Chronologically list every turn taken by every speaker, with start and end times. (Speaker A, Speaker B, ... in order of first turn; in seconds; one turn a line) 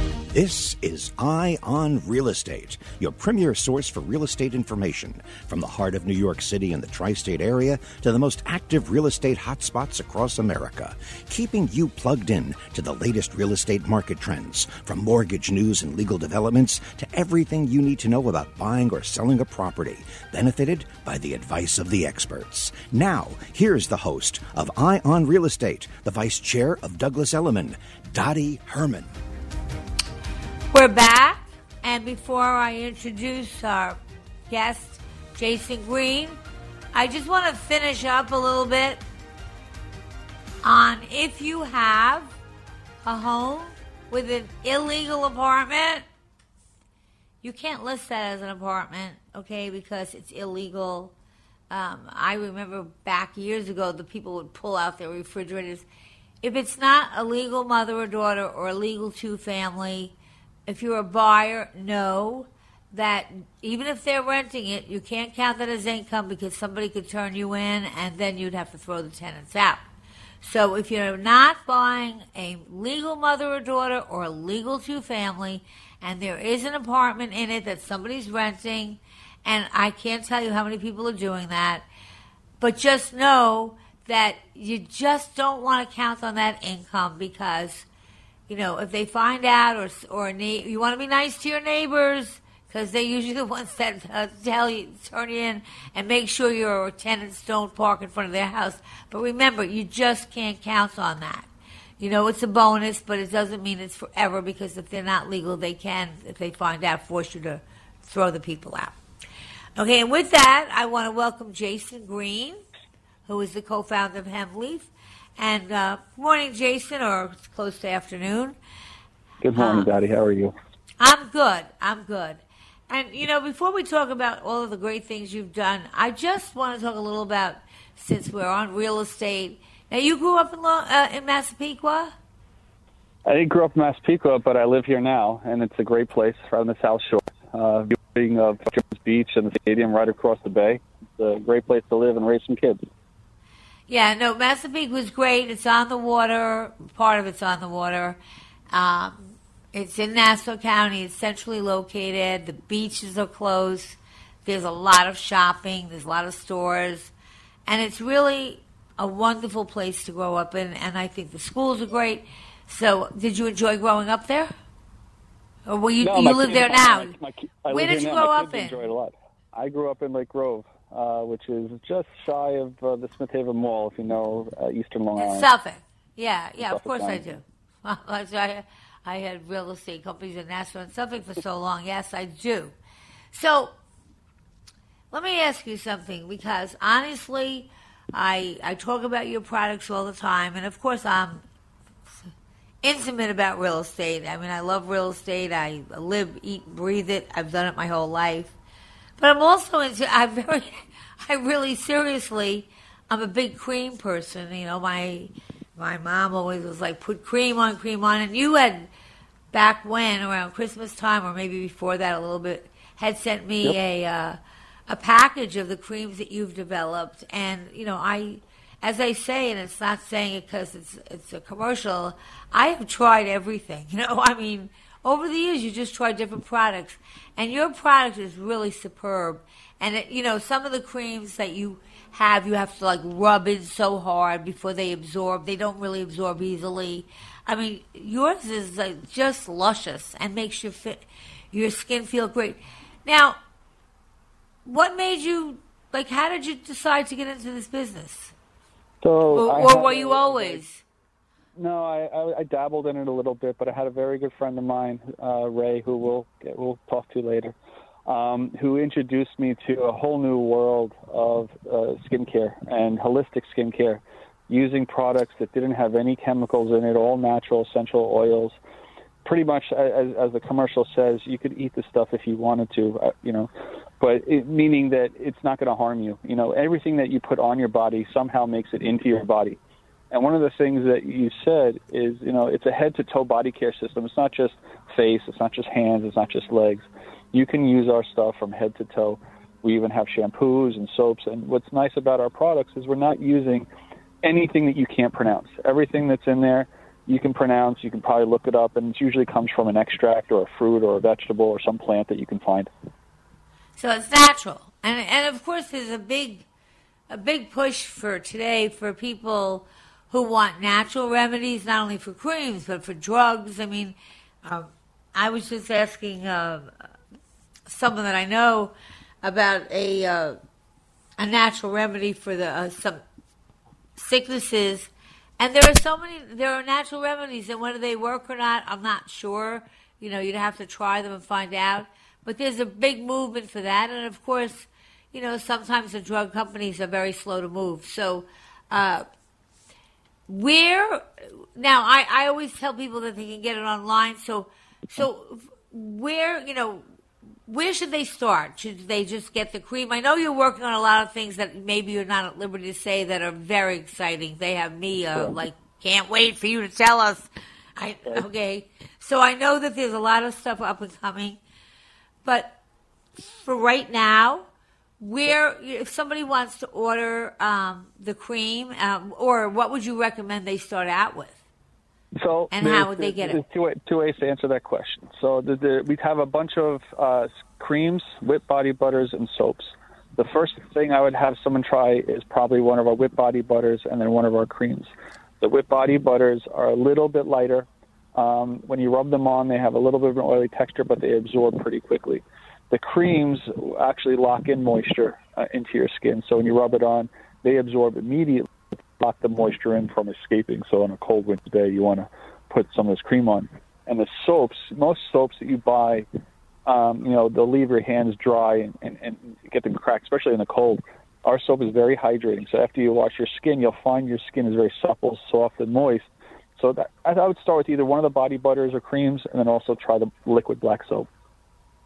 Speaker A: 0.3-29.1
Speaker B: 30.7-36.4
Speaker B: 36.9-39.0
Speaker B: 40.6-42.3
Speaker B: 43.0-46.0
Speaker B: 47.4-51.1
Speaker B: 51.7-55.8
Speaker B: 56.4-60.1
Speaker B: 60.7-69.8
Speaker B: 70.4-81.8
Speaker B: 82.6-87.8
Speaker B: 88.5-101.5
Speaker B: 102.0-108.9
Speaker B: 109.8-112.6
Speaker B: 113.3-118.5
Speaker C: 119.4-120.5
Speaker B: 119.6-119.9
Speaker B: 121.0-132.1
Speaker C: 133.2-142.8
Speaker B: 143.9-148.2
Speaker B: 148.7-157.1
Speaker B: 157.7-164.5
Speaker B: 165.7-167.1
Speaker C: 166.0-175.5
Speaker B: 167.7-168.8
Speaker B: 175.2-182.7
Speaker C: 176.6-177.3
Speaker B: 183.3-183.7
Speaker B: 185.1-191.4
Speaker B: 192.8-198.5
Speaker B: 199.2-208.9
Speaker B: 209.5-243.4
Speaker B: 244.7-248.3
Speaker C: 249.0-250.6
Speaker B: 249.3-250.8
Speaker C: 251.6-257.5
Speaker C: 258.1-268.6
Speaker C: 269.2-279.6
Speaker C: 280.1-293.7
Speaker C: 294.2-302.7
Speaker B: 303.8-306.4
Speaker B: 307.1-316.7
Speaker B: 317.7-320.4
Speaker B: 321.2-323.0
Speaker B: 323.9-339.0
Speaker B: 340.3-341.0
Speaker B: 341.6-346.8
Speaker B: 347.5-361.4
Speaker B: 362.2-362.6
Speaker B: 363.2-364.4
Speaker B: 365.0-371.4
Speaker C: 372.2-406.1
Speaker B: 372.5-373.4
Speaker C: 406.6-421.1